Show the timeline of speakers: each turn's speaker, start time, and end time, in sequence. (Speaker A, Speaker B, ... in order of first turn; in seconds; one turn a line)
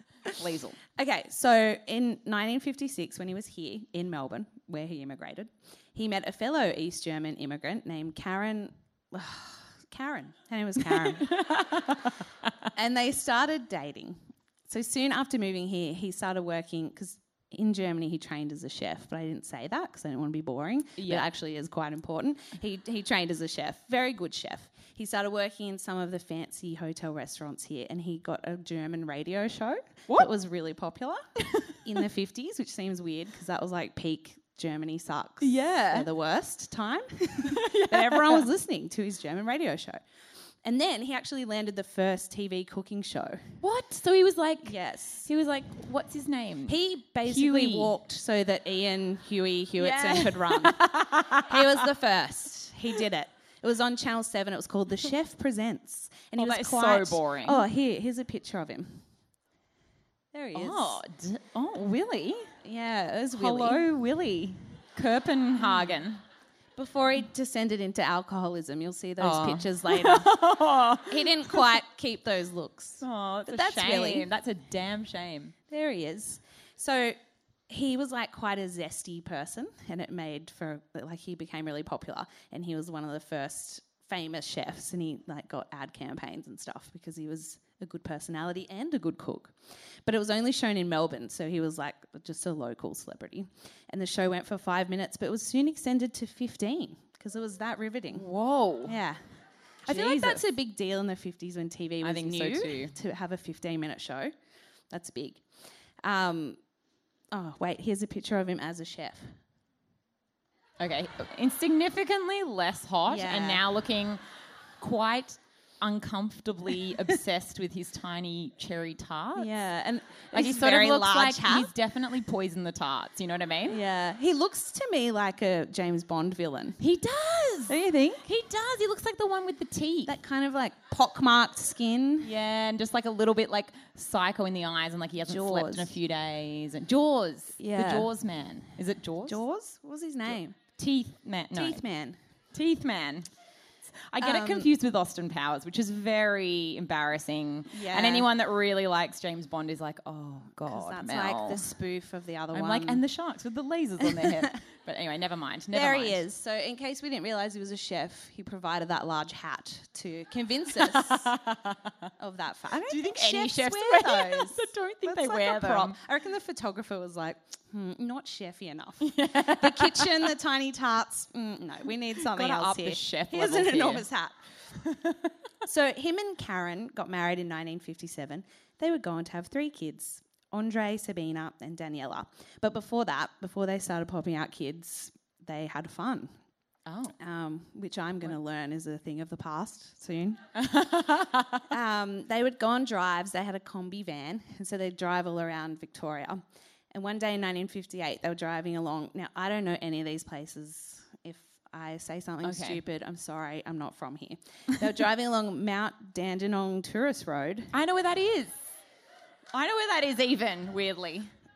Speaker A: 0.3-0.8
Speaker B: 0.9-11.4
Speaker A: 10.8-12.7
Speaker B: 12.7-31.2
Speaker A: 21.0-21.3
Speaker A: 31.4-31.8
Speaker B: 31.8-40.0
Speaker A: 35.4-36.1
Speaker A: 37.4-38.5
Speaker B: 40.6-43.5
Speaker A: 43.6-47.9
Speaker B: 44.6-45.3
Speaker B: 46.7-59.0
Speaker A: 49.8-51.9
Speaker A: 56.4-57.6
Speaker B: 60.3-61.0
Speaker A: 60.5-62.5
Speaker B: 62.6-63.9
Speaker A: 63.3-66.2
Speaker B: 65.6-66.0
Speaker B: 66.8-70.5
Speaker A: 69.2-71.6
Speaker B: 71.0-74.3
Speaker A: 73.0-75.5
Speaker B: 75.7-77.2
Speaker B: 77.7-98.2
Speaker A: 98.1-99.0
Speaker B: 98.8-99.2
Speaker A: 99.8-100.4
Speaker B: 99.8-104.3
Speaker A: 102.0-102.9
Speaker B: 104.9-105.4
Speaker B: 106.0-106.6
Speaker B: 107.3-109.3
Speaker A: 110.8-114.2
Speaker B: 113.1-113.6
Speaker A: 114.8-119.5
Speaker B: 119.3-121.7
Speaker A: 120.3-123.8
Speaker B: 123.7-126.8
Speaker A: 126.8-130.1
Speaker B: 127.7-128.3
Speaker B: 130.1-132.3
Speaker A: 132.2-139.4
Speaker B: 135.2-135.9
Speaker B: 137.6-138.1
Speaker B: 139.2-140.6
Speaker A: 140.8-141.8
Speaker B: 141.5-142.2
Speaker A: 142.5-143.3
Speaker A: 143.9-151.7
Speaker B: 144.2-144.7
Speaker B: 147.7-148.3
Speaker B: 150.7-153.0
Speaker A: 152.5-156.2
Speaker B: 154.0-154.4
Speaker B: 155.7-161.3
Speaker A: 160.7-162.1
Speaker B: 162.2-174.4
Speaker A: 162.9-165.9
Speaker A: 169.0-170.3
Speaker A: 172.2-174.1
Speaker A: 174.8-175.3
Speaker B: 175.6-186.3
Speaker A: 186.8-187.1
Speaker B: 187.2-190.4
Speaker A: 190.5-191.6
Speaker B: 191.7-207.7
Speaker A: 202.4-202.8
Speaker A: 207.7-208.6
Speaker A: 209.5-211.3